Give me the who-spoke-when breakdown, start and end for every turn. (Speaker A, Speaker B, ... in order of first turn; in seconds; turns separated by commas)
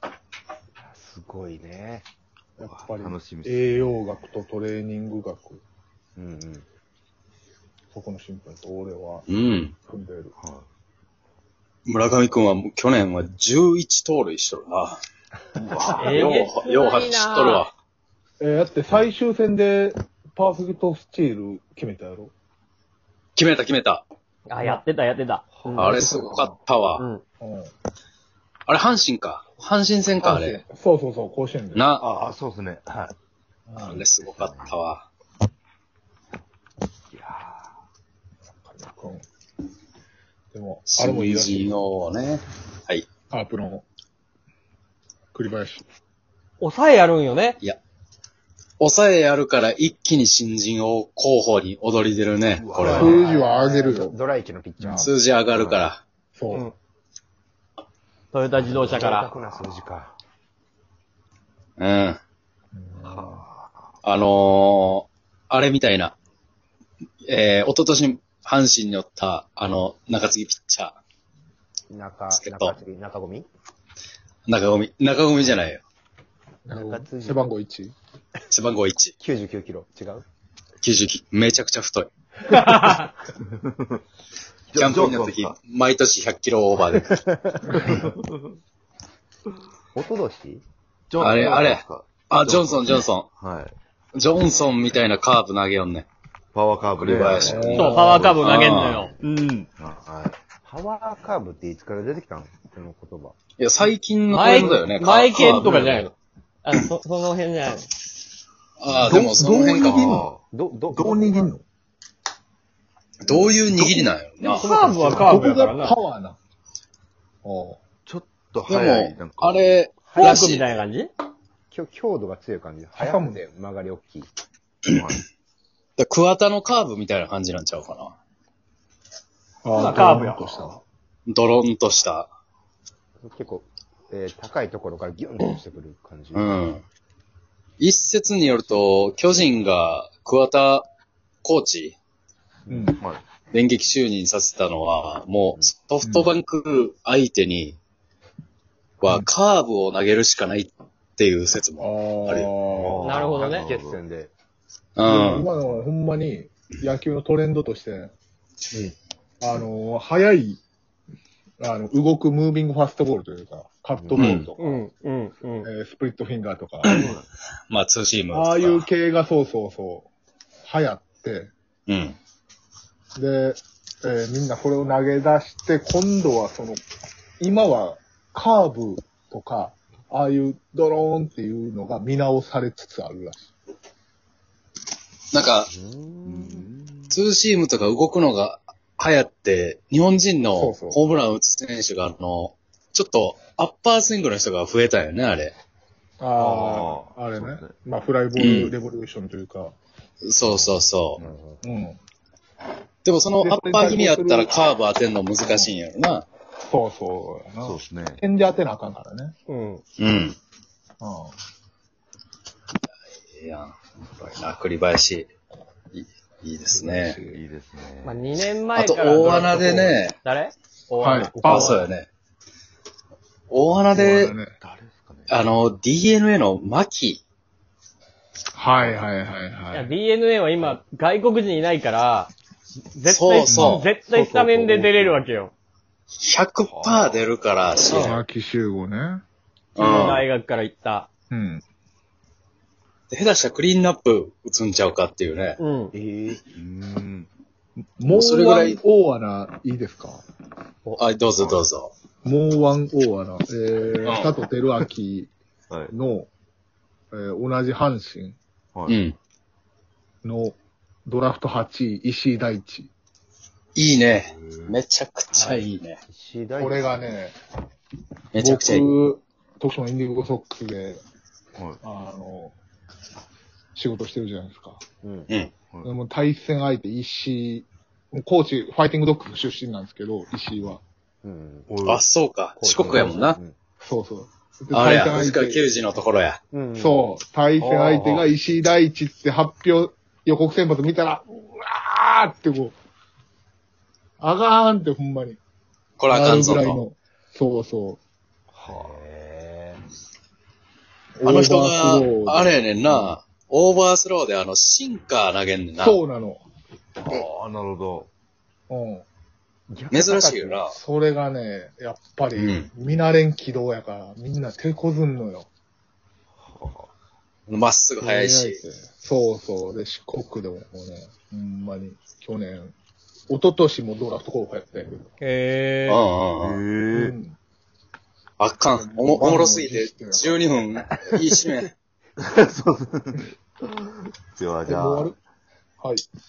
Speaker A: 0.8-2.1, Speaker B: 2.6-5.6, Speaker C: 2.6-3.9, Speaker A: 6.2-6.7, Speaker B: 7.9-9.3, Speaker D: 9.3-9.8, Speaker B: 9.9-10.3, Speaker C: 10.4-10.7, Speaker D: 11.9-15.0, Speaker B: 15.7-16.3, Speaker C: 15.7-16.4, Speaker D: 15.8-17.7, Speaker E: 16.0-17.6, Speaker B: 18.4-22.3, Speaker D: 23.4-24.0, Speaker E: 24.5-26.0, Speaker C: 25.6-26.0, Speaker D: 25.8-27.0, Speaker B: 25.8-26.6, Speaker E: 27.0-27.2, Speaker B: 27.4-27.7, Speaker D: 28.7-30.6, Speaker B: 30.2-31.9, Speaker D: 31.7-32.0, Speaker C: 32.0-33.1, Speaker B: 33.7-34.0, Speaker C: 33.8-34.8, Speaker D: 33.8-35.1, Speaker C: 37.1-37.7, Speaker B: 38.6-39.2, Speaker B: 40.5-41.9, Speaker D: 40.9-43.1, Speaker B: 43.3-43.9, Speaker B: 45.3-45.8, Speaker E: 46.6-47.6, Speaker D: 48.8-53.2, Speaker C: 52.6-53.1, Speaker B: 52.8-54.2, Speaker A: 52.8-55.1, Speaker E: 52.8-53.2, Speaker B: 54.8-55.1, Speaker D: 55.0-56.0, Speaker C: 55.5-55.9, Speaker B: 56.4-56.7, Speaker E: 58.3-59.3, Speaker A: 58.6-60.1, Speaker D: 61.8-62.2, Speaker B: 62.7-63.5, Speaker C: 63.0-63.7, Speaker D: 64.0-66.1, Speaker D: 67.3-71.0, Speaker A: 71.9-73.5, Speaker D: 72.3-72.8, Speaker D: 74.5-75.8, Speaker B: 76.7-77.9, Speaker A: 76.7-77.5, Speaker D: 78.5-79.2, Speaker A: 79.2-80.2, Speaker D: 80.8-82.1, Speaker E: 82.5-83.0, Speaker C: 83.5-84.0, Speaker C: 84.7-85.6, Speaker D: 84.8-87.2, Speaker A: 86.9-87.8, Speaker C: 87.8-88.5, Speaker A: 90.0-90.6, Speaker C: 91.1-93.7, Speaker D: 91.2-93.3, Speaker D: 94.2-96.1, Speaker C: 96.5-98.8, Speaker D: 97.0-99.1, Speaker B: 97.2-98.3, Speaker E: 97.8-99.5, Speaker A: 99.0-99.2, Speaker C: 99.7-100.4, Speaker A: 100.6-103.4, Speaker D: 103.6-106.1, Speaker E: 104.3-106.1, Speaker C: 105.6-106.0, Speaker E: 106.6-107.9, Speaker D: 108.8-110.3, Speaker B: 109.0-110.2, Speaker C: 109.0-110.4, Speaker A: 109.9-111.5, Speaker B: 110.9-111.6, Speaker D: 113.2-114.7, Speaker B: 113.3-114.1, Speaker E: 114.4-116.0, Speaker B: 114.6-116.4, Speaker C: 114.8-115.3, Speaker B: 117.4-117.8, Speaker C: 118.0-120.4, Speaker D: 118.7-120.8, Speaker E: 120.1-121.1, Speaker A: 121.7-124.3, Speaker B: 123.0-123.4, Speaker C: 124.9-125.2, Speaker D: 126.0-128.1, Speaker B: 129.6-130.8, Speaker E: 129.7-130.8, Speaker D: 131.3-132.3, Speaker A: 133.2-136.6, Speaker D: 136.3-136.8, Speaker D: 137.8-140.9, Speaker D: 141.4-142.0, Speaker B: 142.7-143.0, Speaker D: 143.5-147.8, Speaker B: 146.0-146.3, Speaker D: 149.0-152.6, Speaker B: 149.0-149.3, Speaker B: 151.8-153.1, Speaker C: 152.7-154.0, Speaker E: 153.0-153.7, Speaker A: 153.4-154.3, Speaker D: 155.0-155.5, Speaker B: 155.0-158.1, Speaker B: 159.4-160.6, Speaker B: 161.6-164.8, Speaker A: 164.0-164.4, Speaker D: 164.2-164.5, Speaker E: 164.6-165.7, Speaker B: 165.6-167.1, Speaker D: 166.8-167.2, Speaker C: 166.9-167.2, Speaker D: 167.7-168.9, Speaker B: 168.3-170.1, Speaker B: 170.7-171.5, Speaker D: 171.9-172.2, Speaker B: 173.2-176.8, Speaker B: 177.4-183.5, Speaker D: 185.3-185.7, Speaker A: 185.7-186.7, Speaker C: 186.3-187.2, Speaker D: 187.1-195.6, Speaker B: 190.5-191.0, Speaker B: 196.2-199.8, Speaker C: 196.4-197.8, Speaker D: 198.3-198.7, Speaker D: 200.2-201.2, Speaker C: 200.4-201.3, Speaker A: 201.2-201.6, Speaker B: 201.6-202.0, Speaker D: 203.1-206.2, Speaker B: 203.4-204.6, Speaker B: 205.4-205.8, Speaker B: 206.7-209.3, Speaker C: 207.6-208.2, Speaker E: 209.5-209.8, Speaker D: 210.0-210.4, Speaker B: 211.0-211.3, Speaker D: 213.4-215.3, Speaker D: 215.9-217.2, Speaker B: 216.7-217.4, Speaker C: 217.2-218.2, Speaker E: 218.0-221.9, Speaker D: 218.7-220.2, Speaker B: 221.0-221.8, Speaker D: 221.4-222.1, Speaker D: 223.5-224.4, Speaker C: 223.7-224.0, Speaker B: 223.9-224.6, Speaker C: 224.6-225.5, Speaker D: 225.3-227.2, Speaker B: 228.6-229.9, Speaker C: 228.8-229.1, Speaker E: 229.7-232.3, Speaker E: 232.9-235.5, Speaker D: 233.1-233.9, Speaker B: 233.5-233.8, Speaker A: 234.1-235.2, Speaker D: 236.2-238.2, Speaker C: 236.6-237.4, Speaker E: 237.9-238.2, Speaker B: 238.0-239.2, Speaker D: 239.8-240.3, Speaker E: 239.8-241.1, Speaker B: 241.3-241.6, Speaker D: 243.1-245.6, Speaker E: 245.6-245.9, Speaker A: 245.9-246.4, Speaker C: 246.5-247.3, Speaker B: 248.0-250.2, Speaker D: 248.1-248.8, Speaker D: 251.0-251.9, Speaker B: 252.2-255.3, Speaker D: 254.0-254.3, Speaker B: 255.9-256.3, Speaker B: 257.1-258.4, Speaker C: 258.7-259.0, Speaker D: 258.9-259.2, Speaker B: 260.2-260.6, Speaker B: 261.1-262.9, Speaker D: 263.8-266.0, Speaker C: 264.1-264.8, Speaker A: 265.3-267.1, Speaker B: 266.6-267.4, Speaker D: 268.4-268.9, Speaker B: 268.4-271.0, Speaker B: 271.8-272.5, Speaker B: 273.8-274.8, Speaker A: 275.0-275.3, Speaker C: 275.7-276.0, Speaker B: 275.8-280.8, Speaker A: 281.2-281.7, Speaker C: 281.7-282.0, Speaker D: 281.9-283.4, Speaker A: 282.6-283.6, Speaker B: 283.8-285.6, Speaker D: 284.7-286.4, Speaker A: 286.5-287.1, Speaker B: 286.8-292.8, Speaker A: 287.6-288.3, Speaker B: 294.2-295.4, Speaker D: 296.0-296.8, Speaker B: 296.1-298.0, Speaker A: 298.5-299.8, Speaker C: 298.6-299.0, Speaker B: 301.2-303.2, Speaker D: 301.2-306.0, Speaker B: 305.8-306.4, Speaker C: 307.1-308.1, Speaker B: 308.7-309.1, Speaker A: 309.7-310.6, Speaker D: 309.9-310.8, Speaker B: 310.7-315.5, Speaker D: 312.4-312.7, Speaker C: 316.4-316.9, Speaker D: 317.5-318.6, Speaker B: 318.0-322.7, Speaker B: 323.3-325.1, Speaker E: 325.2-326.0, Speaker D: 325.9-326.6, Speaker C: 326.4-327.2, Speaker B: 326.9-327.4, Speaker D: 328.4-331.7, Speaker B: 328.7-330.6, Speaker C: 332.2-333.4, Speaker C: 334.4-335.1, Speaker B: 334.7-335.1